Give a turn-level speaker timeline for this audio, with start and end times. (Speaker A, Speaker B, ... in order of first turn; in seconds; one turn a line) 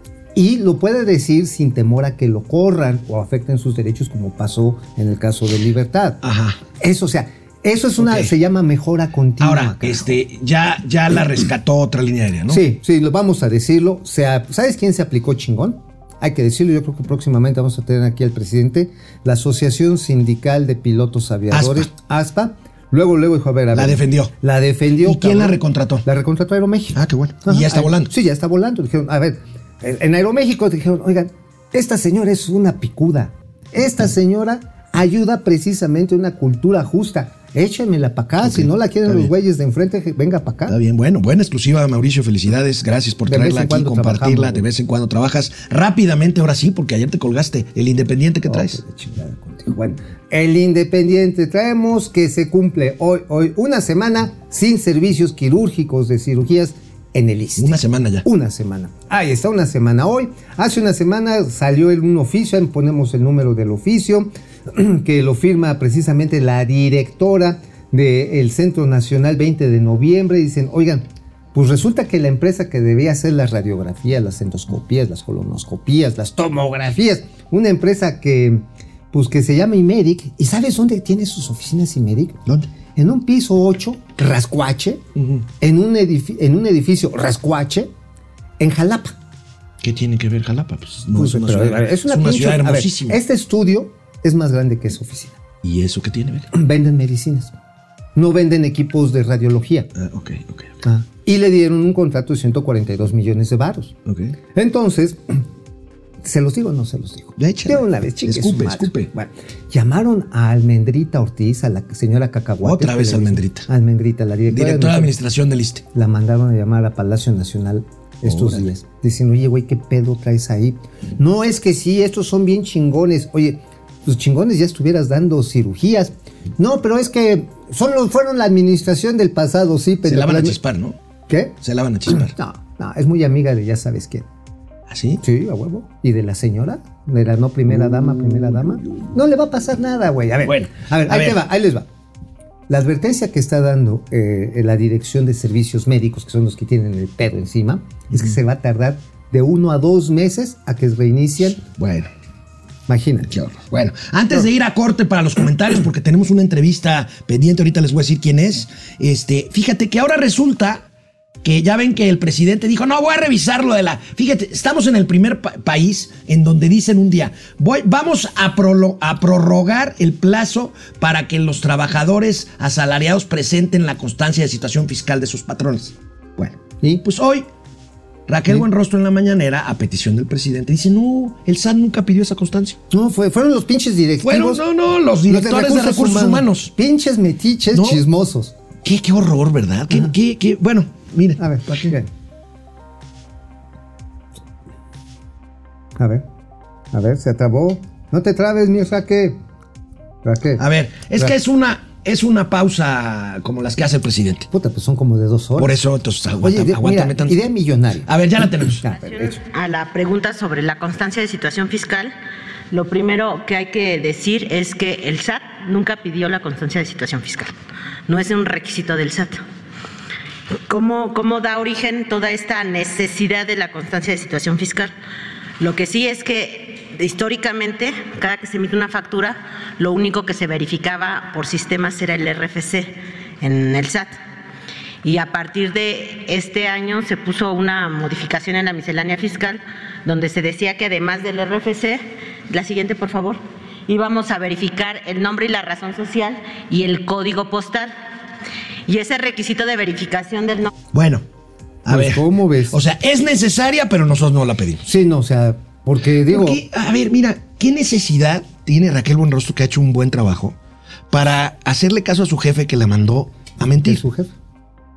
Speaker A: 0.3-6.2
Speaker B: 6.2-6.6
Speaker A: 6.8-10.1
Speaker B: 8.0-8.3
Speaker B: 9.4-12.6
Speaker A: 12.5-40.7
Speaker B: 21.5-21.9
Speaker B: 23.7-24.3
Speaker B: 25.0-26.1
Speaker B: 26.9-28.1
Speaker B: 38.4-39.3
Speaker B: 40.7-48.8
Speaker A: 43.2-44.6
Speaker A: 48.5-82.4
Speaker B: 57.6-58.2
Speaker A: 82.9-85.0
Speaker B: 85.2-85.4
Speaker A: 85.6-87.9
Speaker A: 88.6-89.1
Speaker B: 89.8-93.2
Speaker A: 91.1-95.4
Speaker B: 95.6-96.5
Speaker A: 96.5-97.5
Speaker A: 98.1-99.9
Speaker B: 99.9-100.7
Speaker A: 100.8-103.9
Speaker B: 104.0-104.3
Speaker A: 104.5-105.4
Speaker A: 106.2-115.1
Speaker B: 107.4-109.1
Speaker B: 112.6-113.7
Speaker B: 114.5-115.8
Speaker A: 115.9-130.6
Speaker B: 118.2-118.7
Speaker B: 130.0-130.9
Speaker A: 131.3-131.6
Speaker B: 131.6-132.3
Speaker A: 132.2-134.3
Speaker B: 134.9-135.2
Speaker A: 135.2-141.9
Speaker B: 137.8-138.6
Speaker B: 140.4-141.4
Speaker A: 142.7-151.6
Speaker B: 151.7-152.1
Speaker A: 152.9-153.3
Speaker B: 153.3-160.9
Speaker B: 161.4-177.5
Speaker B: 178.3-182.8
Speaker A: 182.9-184.6
Speaker B: 184.2-186.7
Speaker A: 185.3-188.5
Speaker B: 187.7-188.0
Speaker B: 188.8-191.9
Speaker A: 191.4-192.1
Speaker A: 195.9-196.2
Speaker A: 196.9-199.4
Speaker A: 200.2-200.6
Speaker B: 200.6-204.5
Speaker A: 204.5-205.8
Speaker B: 205.6-207.4
Speaker A: 206.4-209.4
Speaker B: 208.1-208.8
Speaker C: 209.5-212.1
Speaker C: 212.7-217.5
Speaker C: 218.1-219.4
Speaker C: 220.7-224.9
Speaker C: 225.6-234.1
Speaker C: 235.0-247.9
Speaker C: 248.9-250.7
Speaker B: 250.9-251.2
Speaker A: 251.8-252.8
Speaker B: 251.9-254.8
Speaker A: 254.8-256.6
Speaker B: 256.3-260.6
Speaker B: 261.1-264.0
Speaker A: 263.7-264.3